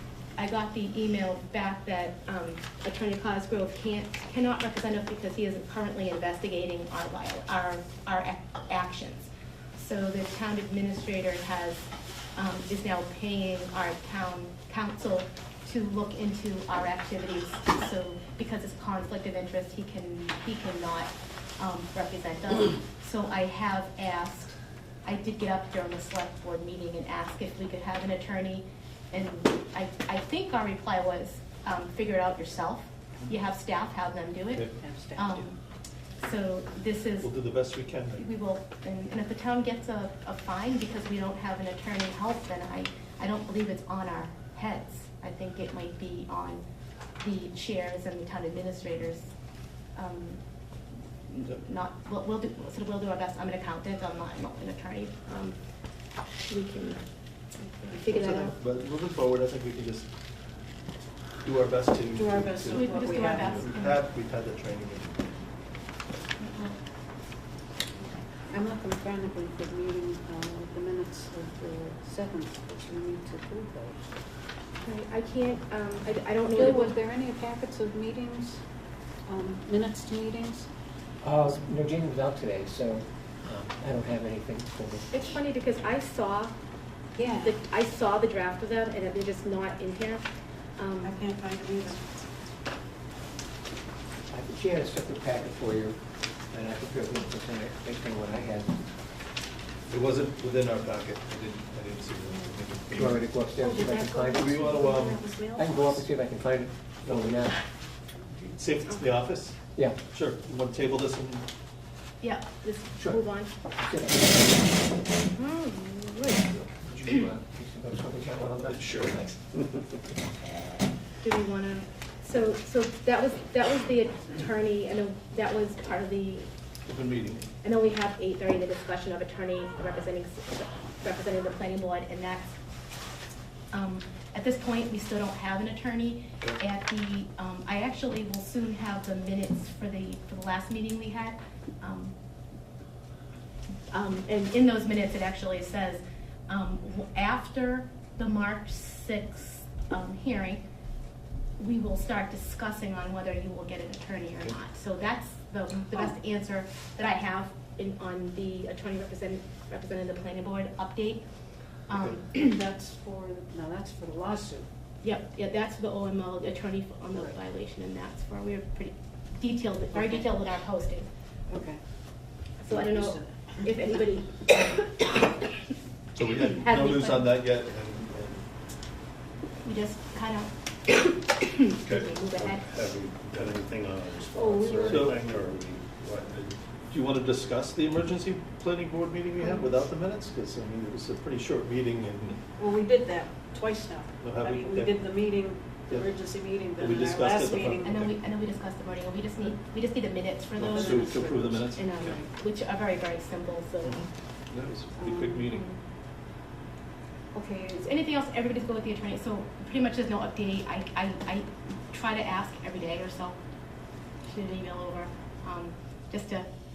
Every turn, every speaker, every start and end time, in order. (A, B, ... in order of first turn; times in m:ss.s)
0:00.4-0:24.5 A
0:25.0-0:35.6 A
0:34.8-0:35.5 B
0:36.2-0:37.3 A
0:37.2-0:38.3 C
0:38.2-0:46.6 A
0:47.2-0:49.3 A
0:50.0-0:50.4 A
0:51.3-0:55.6 A
0:56.5-0:57.0 A
0:57.9-0:58.6 A
0:58.1-1:00.1 C
1:01.4-1:05.2 C
1:02.1-1:03.7 B
1:02.7-1:04.0 A
1:06.4-1:06.8 A
1:08.5-1:14.0 B
1:14.8-1:17.0 A
1:16.5-1:18.6 B
1:19.3-1:20.7 B
1:21.2-1:25.1 D
1:25.1-1:26.5 A
1:27.2-1:27.6 B
1:27.3-1:30.2 A
1:30.8-1:31.2 A
1:31.0-1:32.3 B
1:34.3-1:38.8 D
1:39.9-1:43.3 C
1:42.9-1:44.7 D
1:43.6-1:45.4 A
1:44.3-1:45.2 C
1:44.3-1:45.9 B
1:45.6-1:47.6 D
1:47.1-1:47.6 C
1:48.4-1:49.6 C
1:50.1-1:51.5 C
1:52.2-1:53.5 A
1:53.8-1:54.6 D
1:55.3-1:56.5 A
1:56.9-1:59.4 D
1:58.6-1:59.4 C
2:01.2-2:06.5 A
2:06.9-2:07.5 C
2:07.6-2:12.5 A
2:13.7-2:22.1 A
2:23.9-2:30.6 A
2:31.6-2:41.2 A
2:41.9-2:42.6 A
2:42.3-2:44.7 B
2:45.0-2:51.1 A
2:49.9-2:50.3 B
2:51.5-2:51.8 B
2:52.6-2:55.1 A
2:52.7-2:53.6 B
2:56.2-2:58.4 C
2:56.6-2:57.2 A
2:59.6-3:02.7 A
3:01.8-3:06.6 E
3:04.4-3:05.2 B
3:04.9-3:05.2 C
3:06.9-3:12.4 C
3:12.6-3:18.0 B
3:14.2-3:15.0 C
3:16.8-3:18.2 C
3:17.8-3:24.0 A
3:20.6-3:22.2 C
3:20.6-3:22.2 B
3:23.8-3:25.6 C
3:25.0-3:25.4 B
3:25.5-3:25.8 A
3:27.3-3:27.7 B
3:27.6-3:33.4 A
3:34.3-3:36.5 A